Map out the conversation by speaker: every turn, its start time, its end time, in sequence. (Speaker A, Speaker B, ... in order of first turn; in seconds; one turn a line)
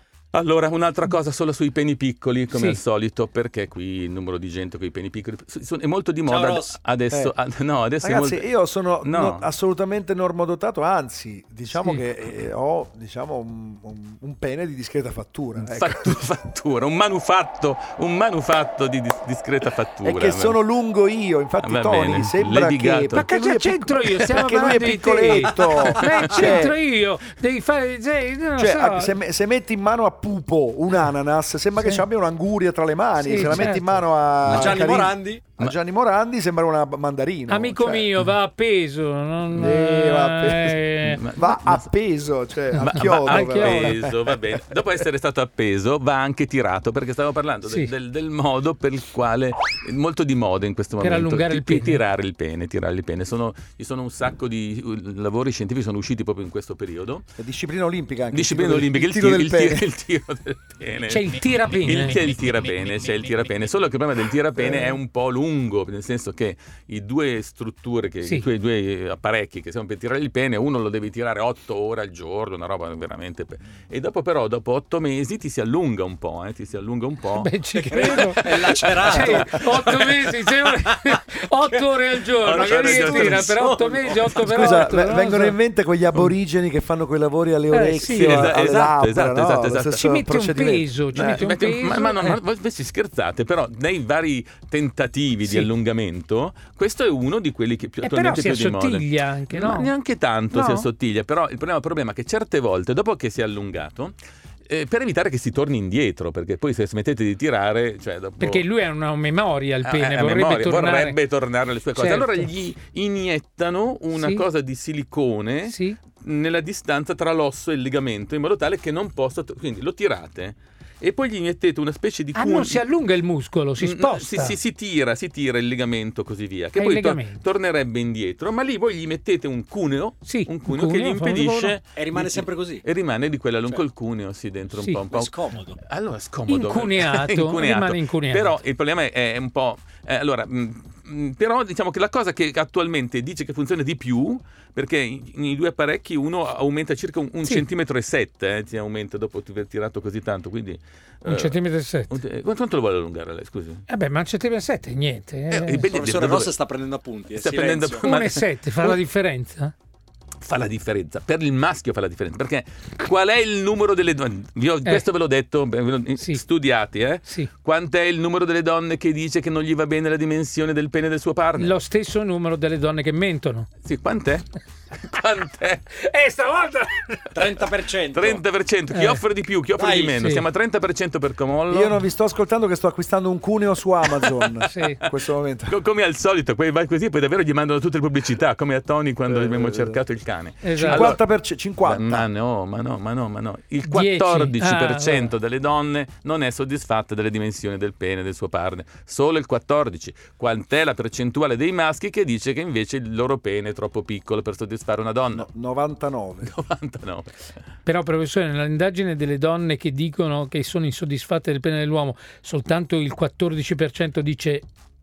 Speaker A: 0.3-8.5
Speaker B: 2.5-2.8
Speaker C: 6.3-6.8
Speaker D: 8.0-16.2
Speaker A: 9.0-9.4
Speaker A: 15.6-20.6
Speaker D: 20.0-26.8
Speaker A: 21.6-23.3
Speaker B: 23.1-29.2
Speaker A: 26.4-26.6
Speaker D: 28.6-38.1
Speaker B: 33.2-34.0
Speaker C: 34.4-35.4
Speaker B: 37.5-41.2
Speaker D: 39.6-40.8
Speaker A: 41.0-41.8
Speaker D: 41.3-44.4
Speaker B: 42.7-44.0
Speaker A: 42.8-57.2
Speaker B: 47.6-47.9
Speaker B: 51.0-52.0
Speaker D: 57.4-59.9
Speaker A: 58.3-79.8
Speaker B: 61.1-62.2
Speaker D: 64.6-65.0
Speaker B: 77.3-85.6
Speaker C: 77.8-80.4
Speaker A: 82.4-83.8
Speaker C: 82.4-84.6
Speaker D: 84.5-90.9
Speaker B: 87.7-88.5
Speaker A: 88.0-90.1
Speaker B: 90.0-92.4
Speaker A: 91.1-104.1
Speaker B: 98.0-99.9
Speaker B: 100.5-100.9
Speaker A: 104.7-108.6
Speaker B: 108.4-111.2
Speaker A: 109.8-122.8
Speaker B: 112.0-112.5
Speaker B: 114.1-114.4
Speaker B: 115.7-116.0
Speaker B: 122.3-124.6
Speaker A: 123.8-151.6
Speaker B: 126.7-127.4
Speaker B: 130.2-131.8
Speaker C: 131.9-132.8
Speaker C: 135.1-135.8
Speaker B: 136.5-138.6
Speaker B: 151.2-152.2
Speaker A: 152.1-153.8
Speaker B: 153.9-155.8
Speaker A: 155.5-156.5
Speaker C: 155.8-158.1
Speaker A: 157.3-159.0
Speaker B: 158.0-159.7
Speaker A: 160.4-171.7
Speaker B: 171.6-173.7
Speaker A: 173.8-175.9
Speaker B: 175.9-177.3
Speaker C: 177.3-178.4
Speaker A: 178.1-182.0
Speaker B: 178.9-179.2
Speaker C: 179.8-180.2
Speaker B: 180.1-180.4
Speaker D: 181.7-185.8
Speaker B: 184.6-185.0
Speaker A: 185.7-191.2
Speaker D: 189.3-190.0
Speaker B: 190.6-191.1
Speaker D: 190.8-192.3
Speaker A: 191.8-205.4
Speaker B: 193.8-195.3
Speaker D: 205.3-206.5
Speaker A: 206.4-207.5
Speaker B: 207.8-214.6